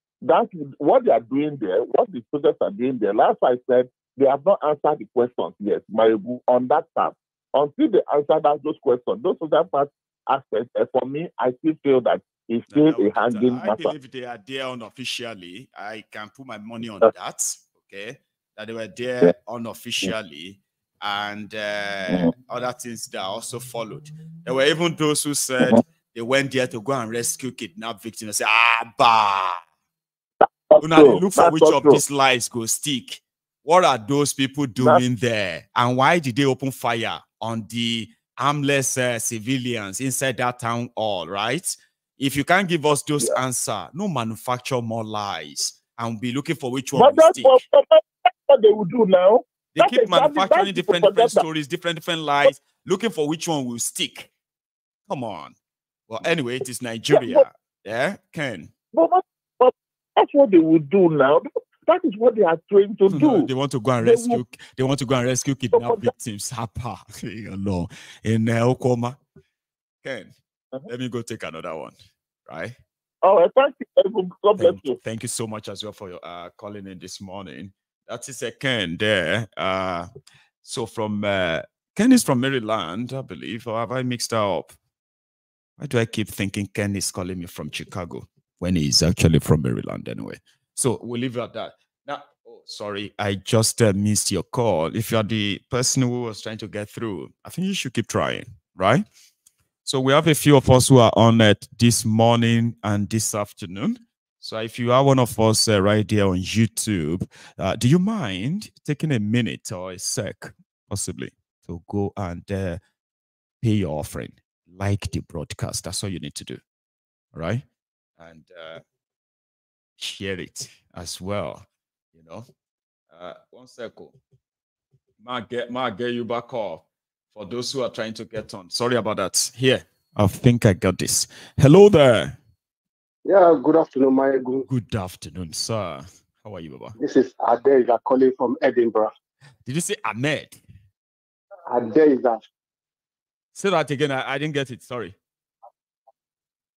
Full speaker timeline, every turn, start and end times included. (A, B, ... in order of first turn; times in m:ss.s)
0:00.2-0:13.9 A
0:12.7-0:29.6 B
0:30.7-0:32.0 A
0:30.8-0:47.6 B
0:46.9-0:51.4 A
0:49.7-0:54.3 B
0:55.1-0:55.5 B
0:56.1-0:58.7 B
0:57.1-0:57.4 A
0:58.9-1:03.5 A
1:03.1-1:09.2 B
1:04.0-1:04.4 A
1:05.7-1:06.1 A
1:10.0-1:10.3 B
1:10.9-1:11.9 B
1:12.5-1:12.8 B
1:13.2-1:15.0 A
1:14.6-1:20.1 B
1:20.6-1:24.7 B
1:25.8-1:39.0 B
1:39.8-1:52.8 B
1:53.6-1:56.6 B
1:57.3-1:57.6 B
1:58.2-1:58.8 B
2:00.0-2:02.5 B
2:03.1-2:04.2 B
2:05.2-2:12.4 B
2:13.2-2:14.6 C
2:14.7-2:17.0 B
2:17.0-2:19.1 C
2:19.6-2:20.6 B
2:21.7-2:22.4 C
2:23.5-2:25.1 B